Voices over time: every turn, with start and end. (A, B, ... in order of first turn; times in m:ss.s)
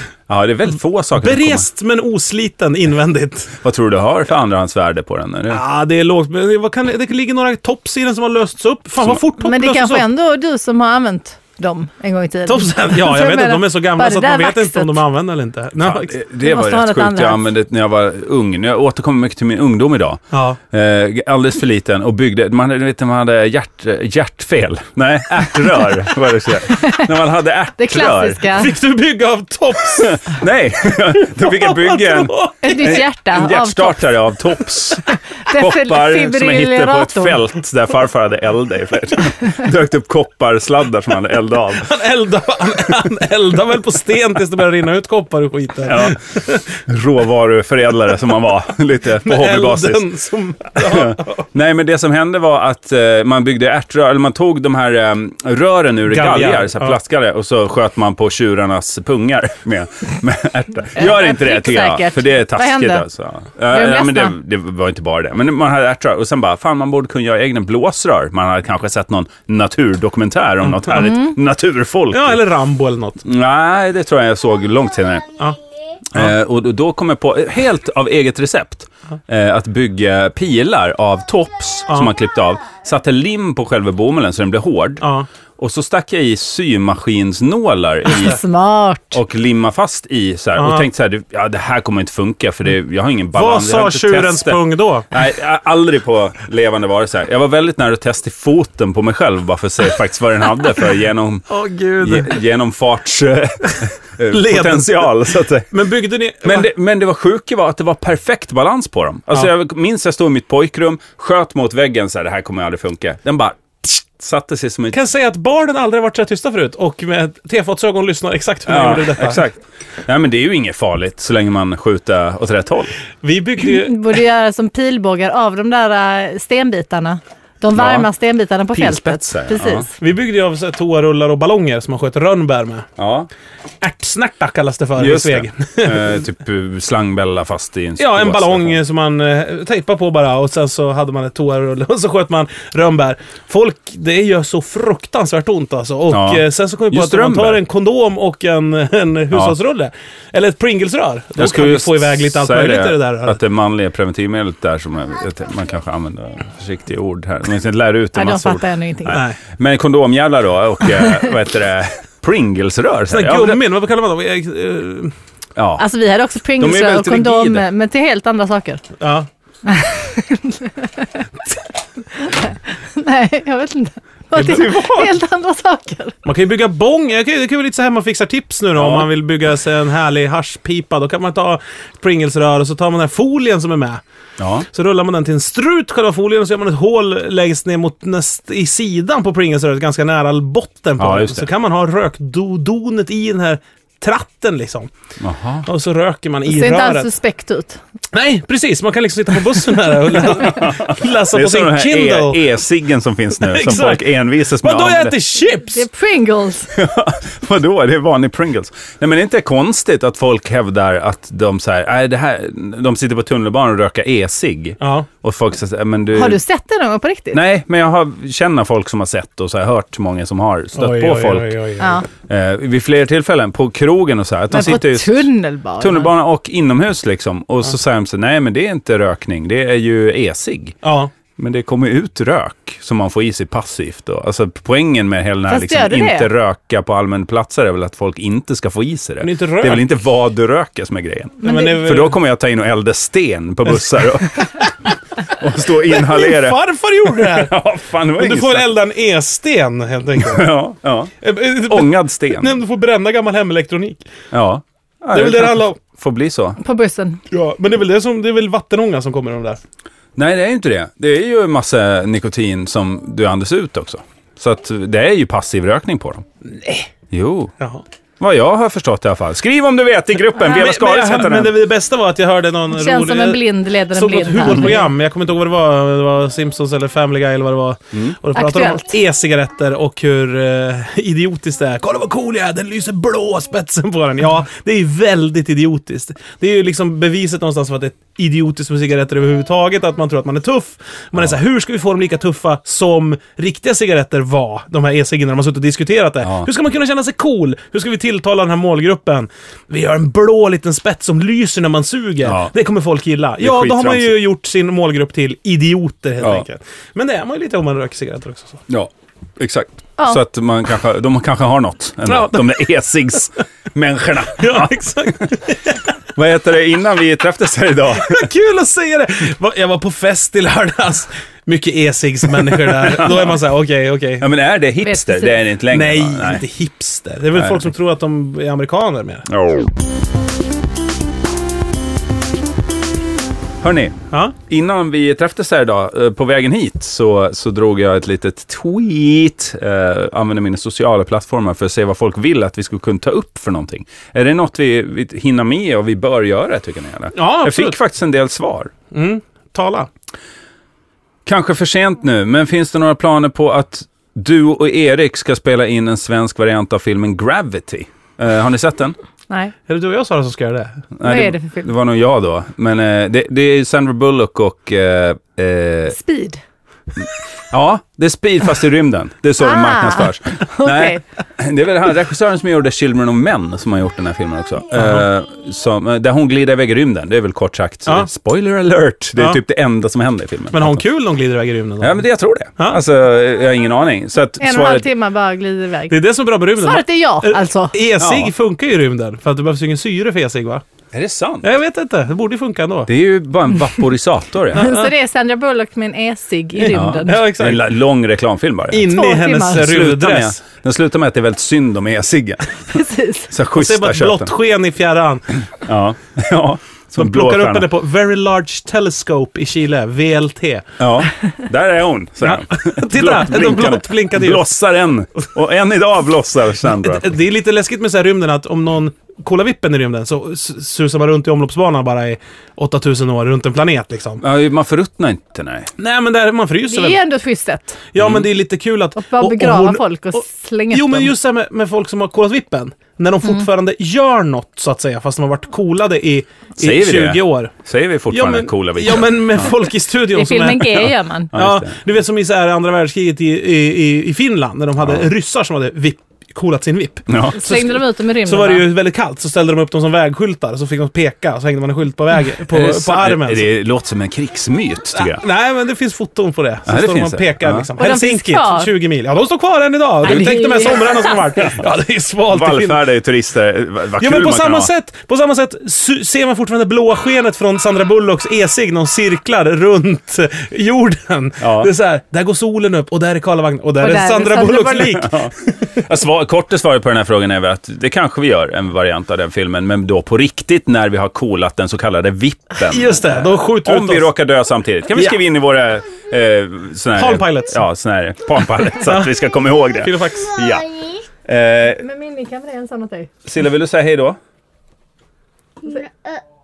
0:00.3-0:01.7 A
0:01.2-0:03.6 B
0:03.6-0:05.6 A
0:05.5-0:10.0 B
0:09.4-0:15.0 C
0:12.5-0:16.1 B
0:15.8-0:28.4 A
0:16.4-0:17.5 C
0:20.3-0:20.6 B
0:26.7-0:27.1 C
0:27.8-0:28.7 C
0:28.5-0:30.4 B
0:30.0-0:41.9 A
0:31.2-0:33.0 B
0:32.6-0:34.0 C
0:35.4-0:37.4 C
0:41.8-0:46.6 B
0:45.8-0:46.2 A
0:46.8-0:50.1 A
0:49.2-0:51.5 B
0:50.8-1:12.4 A
0:56.1-0:57.0 B
1:01.0-1:03.1 C
1:03.7-1:04.4 C
1:11.0-1:11.3 C
1:12.1-1:13.2 B
1:13.2-1:15.4 A
1:16.1-1:25.0 A
1:25.0-1:25.3 B
1:25.6-1:28.4 A
1:28.1-1:29.2 C
1:29.1-1:34.6 A
1:30.6-1:30.9 B
1:33.3-1:35.1 B
1:35.1-1:45.7 A
1:41.5-1:42.4 B
1:44.3-1:46.7 B
1:46.4-1:55.0 A
1:54.9-1:59.4 B
1:58.7-2:02.9 A
2:03.2-2:04.1 B
2:03.6-2:09.9 C
2:07.8-2:08.1 A
2:08.7-2:09.9 A
2:10.0-2:12.9 B
2:13.0-2:13.3 A
2:13.8-2:16.2 B
2:15.0-2:18.8 A
2:18.0-2:33.4 B
2:26.1-2:27.6 A
2:31.4-2:43.6 A
2:38.2-2:39.2 C
2:39.1-2:39.4 B
2:43.1-2:45.1 B
2:45.6-2:45.8 A
2:45.8-2:48.8 C
2:46.6-2:47.6 A
2:49.0-2:49.3 B
2:49.7-2:51.2 C
2:52.1-2:56.1 C
2:54.4-2:55.1 A
2:56.2-3:04.0 B
2:58.8-2:59.1 A
3:04.4-3:04.7 A
3:04.7-3:14.9 B
3:11.0-3:11.5 A
3:15.2-3:15.7 A
3:15.7-3:17.1 B
3:16.5-3:17.8 C
3:18.1-3:22.4 B
3:20.2-3:25.1 A
3:23.4-3:25.8 B
3:25.7-3:26.7 C
3:26.7-3:36.4 A
3:34.8-3:35.1 B
3:36.1-3:37.4 C
3:37.3-3:41.6 A
3:40.8-3:42.0 B
3:41.8-3:42.1 C
3:42.3-3:45.3 A
3:44.5-3:46.1 C
3:45.8-3:50.8 A
3:50.8-3:51.1 B
3:51.4-4:04.7 A
3:55.5-3:56.3 C
3:59.2-3:59.9 B
4:01.4-4:01.8 C
4:01.4-4:02.2 B
4:05.3-4:08.7 A
4:05.9-4:07.6 B
4:08.2-4:10.5 B
4:10.2-4:11.2 A
4:11.2-4:14.0 B
4:11.7-4:12.6 A
4:14.3-4:16.6 A
4:15.1-4:15.8 B
4:16.6-4:17.2 C
4:17.3-4:19.6 B
4:20.2-4:26.2 A
4:26.5-4:26.9 B
4:27.1-4:27.5 A
4:28.2-4:31.5 A
4:30.5-4:33.4 B
4:32.7-4:34.9 C
4:33.9-5:08.6 B
4:38.4-4:38.8 C
4:56.2-4:56.5 A
5:02.2-5:02.5 A
5:03.4-5:04.2 A
5:06.2-5:06.4 A
5:08.7-5:14.7 A
5:12.1-5:12.5 B
5:14.4-5:15.8 B
5:16.2-5:18.3 A
5:18.0-5:24.3 B
5:22.8-5:23.4 A
5:24.2-5:26.4 A
5:24.8-5:25.4 C
5:25.7-5:29.2 B
5:27.4-5:27.7 A
5:29.3-5:29.7 A
5:33.6-5:48.7 A
5:47.2-5:47.8 B
5:48.9-5:49.9 B
5:51.2-5:59.0 A
5:59.7-6:00.9 B
6:01.0-6:06.0 A
6:01.0-6:01.7 C
6:05.9-6:06.4 C
6:07.5-6:20.8 A
6:09.4-6:11.0 C
6:14.8-6:15.1 B
6:20.5-6:22.0 B
6:21.8-6:24.8 A
6:24.4-6:26.0 C
6:25.9-6:30.6 B
6:26.6-6:27.8 C
6:28.0-6:28.3 A
6:30.9-6:31.4 A
6:31.4-6:32.9 B
6:32.9-6:34.7 A
6:34.6-6:34.9 B
6:34.6-6:37.3 C
6:36.6-6:37.6 B
6:36.7-6:38.9 A
6:38.7-6:40.4 B
6:38.9-6:39.6 C
6:39.5-6:44.3 A
6:42.7-6:43.3 C
6:43.5-6:45.4 B
6:45.6-6:47.7 A
6:47.0-6:50.7 B
6:50.8-6:57.2 A
6:52.2-6:54.5 B
6:56.8-7:04.2 B
7:04.2-7:05.7 A
7:05.8-7:07.0 B
7:06.7-7:07.8 C
7:07.9-7:09.8 B
7:08.0-7:08.3 A
7:09.0-7:11.1 C
7:10.7-7:17.5 B
7:16.6-7:19.5 A
7:18.1-7:33.5 B
7:20.1-7:21.3 C
7:21.3-7:21.7 A
7:27.1-7:27.4 A
7:27.3-7:28.7 C
7:32.5-7:35.2 A
7:35.0-7:42.8 B
7:36.7-7:37.7 A
7:37.8-7:38.7 C
7:40.0-7:41.1 C
7:40.1-7:40.5 A
7:42.3-7:44.7 A
7:44.0-7:55.3 B
7:51.4-7:51.7 A
7:53.8-7:55.0 C
7:54.9-8:10.7 A
8:02.7-8:04.1 B
8:04.9-8:05.2 B
8:07.0-8:07.6 B
8:08.8-8:09.1 B
8:09.8-8:10.4 B
8:11.2-8:11.8 A
8:11.8-8:13.1 C
8:13.2-8:14.2 A
8:15.7-8:15.9 C